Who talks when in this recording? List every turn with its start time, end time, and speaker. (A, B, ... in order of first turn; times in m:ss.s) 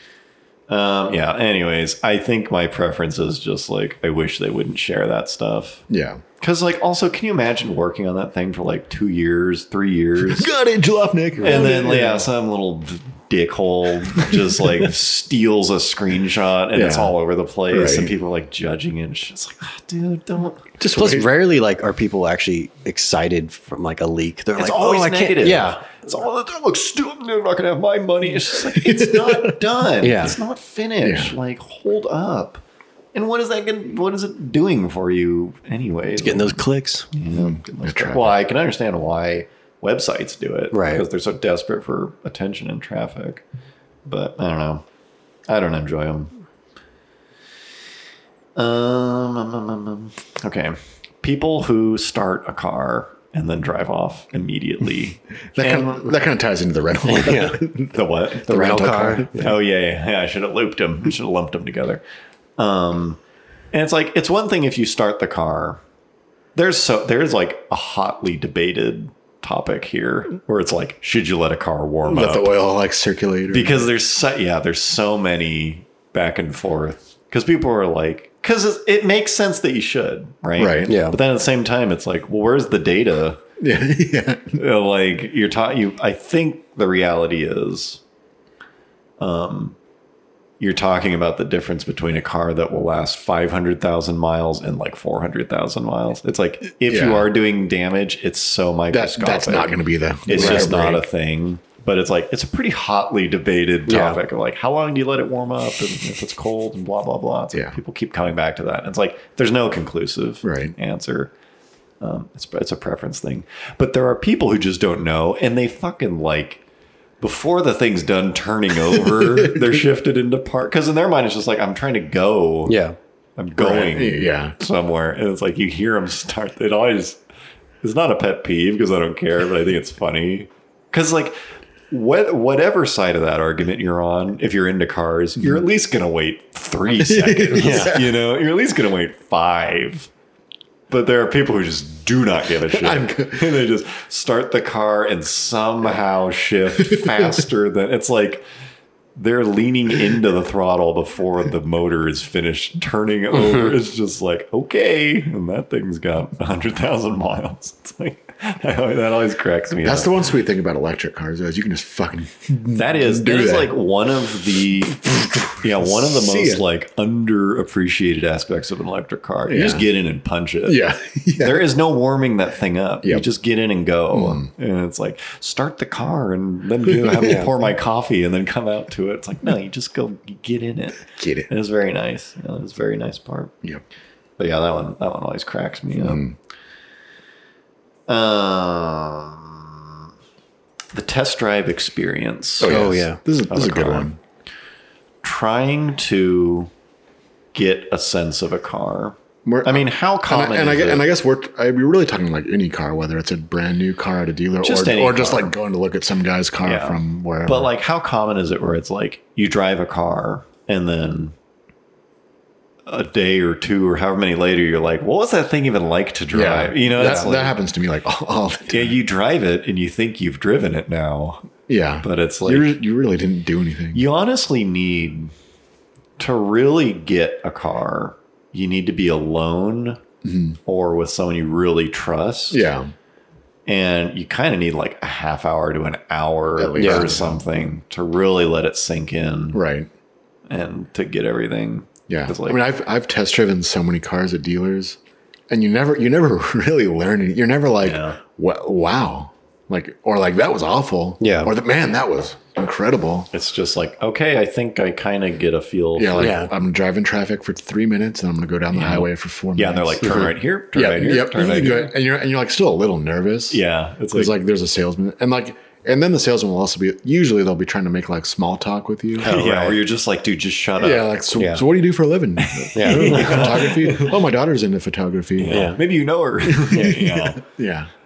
0:00.7-0:05.8 A
0:05.9-0:06.2 B
0:06.4-0:10.5 A
0:10.2-0:12.3 B
0:11.4-0:11.9 C
0:11.4-0:20.7 A
0:16.7-0:17.1 B
0:17.7-0:18.1 B
0:20.8-0:21.3 B
0:20.9-0:25.9 C
0:24.6-0:32.6 A
0:28.8-0:29.5 B
0:30.0-0:30.4 C
0:31.0-0:31.4 B
0:33.1-0:36.6 A
0:36.2-0:37.1 C
0:37.1-0:43.4 A
0:37.3-0:38.3 B
0:40.7-0:41.0 C
0:44.1-0:44.8 A
0:45.5-0:46.3 A
0:48.6-0:56.2 A
0:55.6-0:58.0 B
0:57.1-0:57.6 C
0:57.9-1:02.0 A
0:58.5-0:59.5 B
0:58.5-0:59.5 C
1:02.6-1:03.2 A
1:03.7-1:05.8 A
1:06.6-1:12.5 A
1:12.1-1:13.8 B
1:13.5-1:23.4 A
1:20.6-1:21.0 B
1:20.9-1:21.2 C
1:23.6-1:24.6 B
1:24.6-1:28.0 A
1:29.2-1:29.8 A
1:30.6-1:51.3 A
1:36.9-1:37.3 B
1:38.9-1:41.0 B
1:40.4-1:40.7 C
1:43.9-1:44.2 C
1:50.4-1:50.7 B
1:52.0-1:56.6 A
1:57.2-2:02.8 A
2:02.7-2:03.0 C
2:03.4-2:07.2 A
2:03.6-2:04.6 B
2:07.8-2:11.4 A
2:11.9-2:20.1 A
2:15.4-2:15.6 B
2:17.0-2:18.2 B
2:17.6-2:17.9 C
2:20.9-2:28.4 A
2:22.7-2:23.5 B
2:26.9-2:27.3 B
2:29.2-2:40.1 A
2:39.8-2:43.7 B
2:42.7-2:50.8 A
2:45.0-2:46.6 B
2:49.5-2:49.9 B
2:50.6-2:51.7 B
2:51.4-3:03.5 A
2:54.1-2:54.5 B
2:57.0-2:57.4 B
2:57.2-2:57.5 C
3:01.2-3:01.5 B
3:04.4-3:06.2 A
3:06.0-3:06.4 B
3:08.1-3:10.0 A
3:10.9-3:12.8 A
3:12.6-3:14.2 B
3:12.6-3:13.2 C
3:13.5-3:14.1 A
3:15.2-3:16.7 A
3:17.5-3:21.1 A
3:19.5-3:27.7 B
3:24.6-3:25.5 A
3:26.6-3:31.3 A
3:32.9-3:37.6 A
3:36.3-3:39.0 B
3:37.0-3:37.3 C
3:38.7-3:41.5 A
3:41.7-3:44.0 B
3:42.0-3:42.7 A
3:43.9-3:45.3 A
3:46.2-3:50.0 A
3:50.2-3:50.6 B
3:50.7-3:52.6 A
3:52.5-3:52.9 B
3:53.7-3:59.6 A
3:56.6-3:57.4 B
3:56.8-3:57.1 C
3:59.5-3:59.9 B
4:00.5-4:02.6 A
4:02.1-4:05.0 B
4:05.5-4:13.3 B
4:07.8-4:08.2 A
4:11.2-4:11.5 C
4:13.3-4:16.4 A
4:16.0-4:23.6 B
4:16.2-4:16.5 C
4:18.7-4:21.9 A
4:23.5-4:24.4 A
4:24.1-4:29.4 B
4:29.2-4:29.8 C
4:29.2-4:31.1 A
4:30.8-4:35.7 B
4:31.4-4:31.6 C
4:32.4-4:34.2 A
4:32.8-4:33.5 C
4:35.4-4:37.4 A
4:35.5-4:35.8 C
4:36.5-4:37.9 B